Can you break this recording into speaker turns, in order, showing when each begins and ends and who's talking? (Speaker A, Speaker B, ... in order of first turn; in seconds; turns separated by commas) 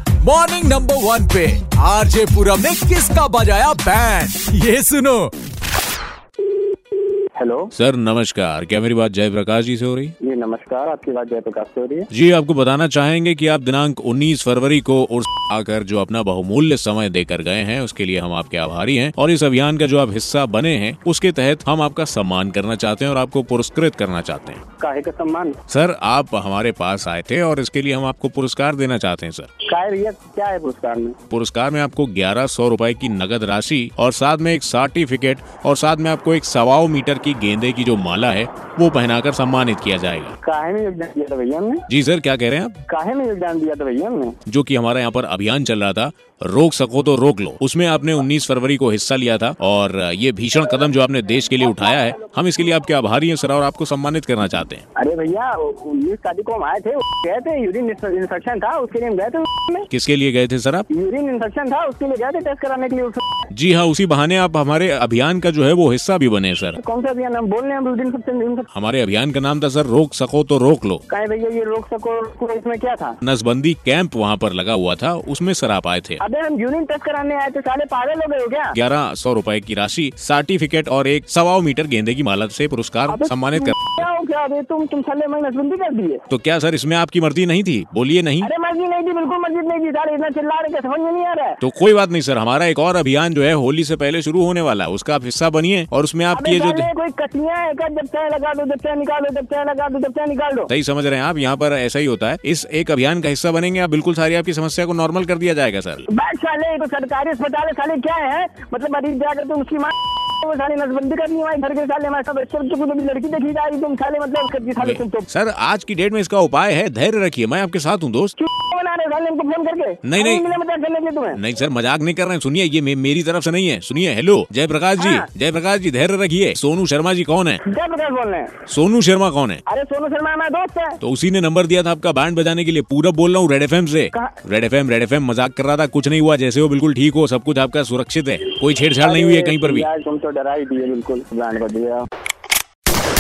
Speaker A: 0.2-5.3, Speaker B: 7.4-7.7, Speaker C: 7.7-10.1, Speaker B: 10.2-12.1, Speaker C: 12.1-24.6, Speaker B: 24.8-25.6, Speaker C: 25.7-29.5, Speaker B: 29.6-31.2, Speaker C: 31.3-40.3, Speaker B: 40.4-41.9, Speaker C: 41.9-42.8, Speaker B: 42.9-44.4, Speaker C: 44.5-54.9, Speaker B: 55.0-59.9, Speaker C: 59.9-60.9, Speaker B: 60.9-63.3, Speaker C: 63.5-66.8, Speaker B: 66.8-68.7, Speaker C: 68.7-71.0, Speaker B: 71.1-73.2, Speaker C: 73.2-76.2, Speaker B: 76.2-78.8, Speaker C: 78.7-83.9, Speaker B: 83.1-86.2, Speaker C: 86.3-88.5, Speaker B: 88.4-91.6, Speaker C: 91.6-96.9, Speaker B: 96.3-100.7, Speaker C: 100.7-106.0, Speaker B: 106.1-115.3, Speaker C: 114.8-118.3, Speaker B: 118.4-121.4, Speaker C: 120.0-120.5, Speaker C: 121.4-127.6, Speaker B: 125.0-125.3, Speaker B: 127.6-128.6, Speaker C: 128.7-129.6, Speaker B: 129.7-131.0, Speaker C: 131.0-139.9, Speaker B: 139.0-142.1